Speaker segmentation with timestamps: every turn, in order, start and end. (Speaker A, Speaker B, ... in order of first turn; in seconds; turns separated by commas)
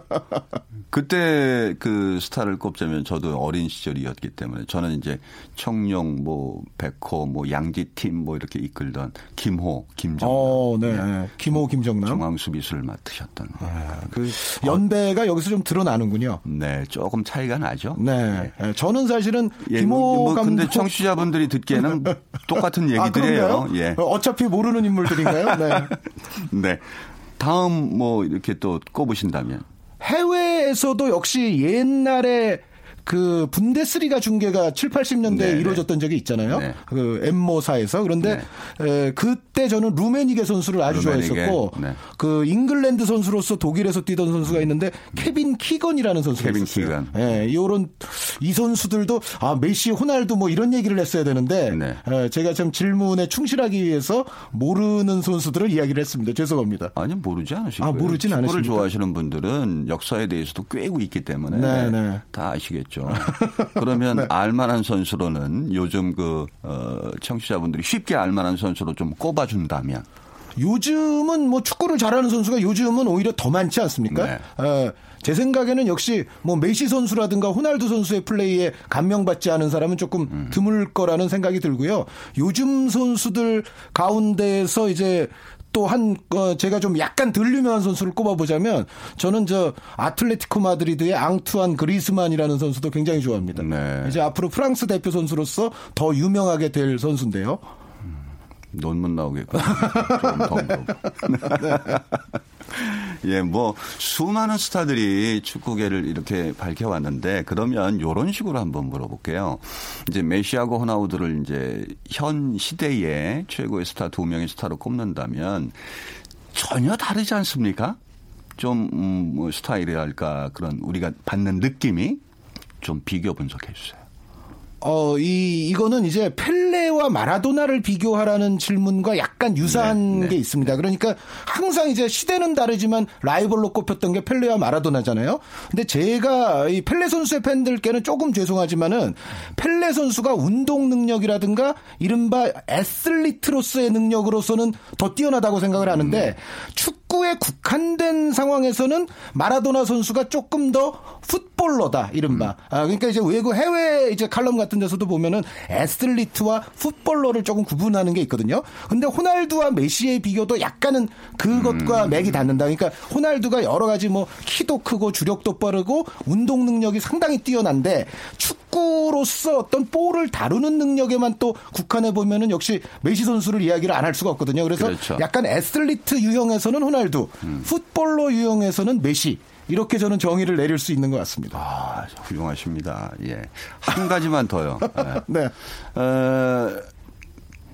Speaker A: 0.9-14.8, Speaker B: 10.2-12.2, Speaker B: 13.6-16.4, Speaker A: 16.4-18.5, Speaker B: 17.9-21.0, Speaker A: 19.6-24.0, Speaker B: 21.8-22.1, Speaker B: 22.9-26.0, Speaker A: 25.1-29.6, Speaker B: 30.0-56.9, Speaker A: 35.3-35.8, Speaker A: 36.5-36.8, Speaker A: 40.9-42.0, Speaker A: 46.3-47.3, Speaker A: 51.7-52.0, Speaker A: 57.0-70.0, Speaker B: 57.8-58.9, Speaker B: 61.5-62.2, Speaker B: 63.1-64.3, Speaker B: 70.5-97.6, Speaker A: 74.1-74.4, Speaker A: 93.5-94.2, Speaker A: 98.7-102.2, Speaker B: 99.8-100.5, Speaker B: 101.5-102.0, Speaker A: 102.7-115.8, Speaker A: 116.5-118.0, Speaker A: 118.6-122.2, Speaker A: 122.8-124.0, Speaker B: 124.8-181.6, Speaker A: 129.6-130.4, Speaker A: 146.0-146.3, Speaker A: 161.5-162.4, Speaker A: 174.8-175.2, Speaker A: 181.5-185.2, Speaker B: 184.9-185.5, Speaker A: 185.9-186.9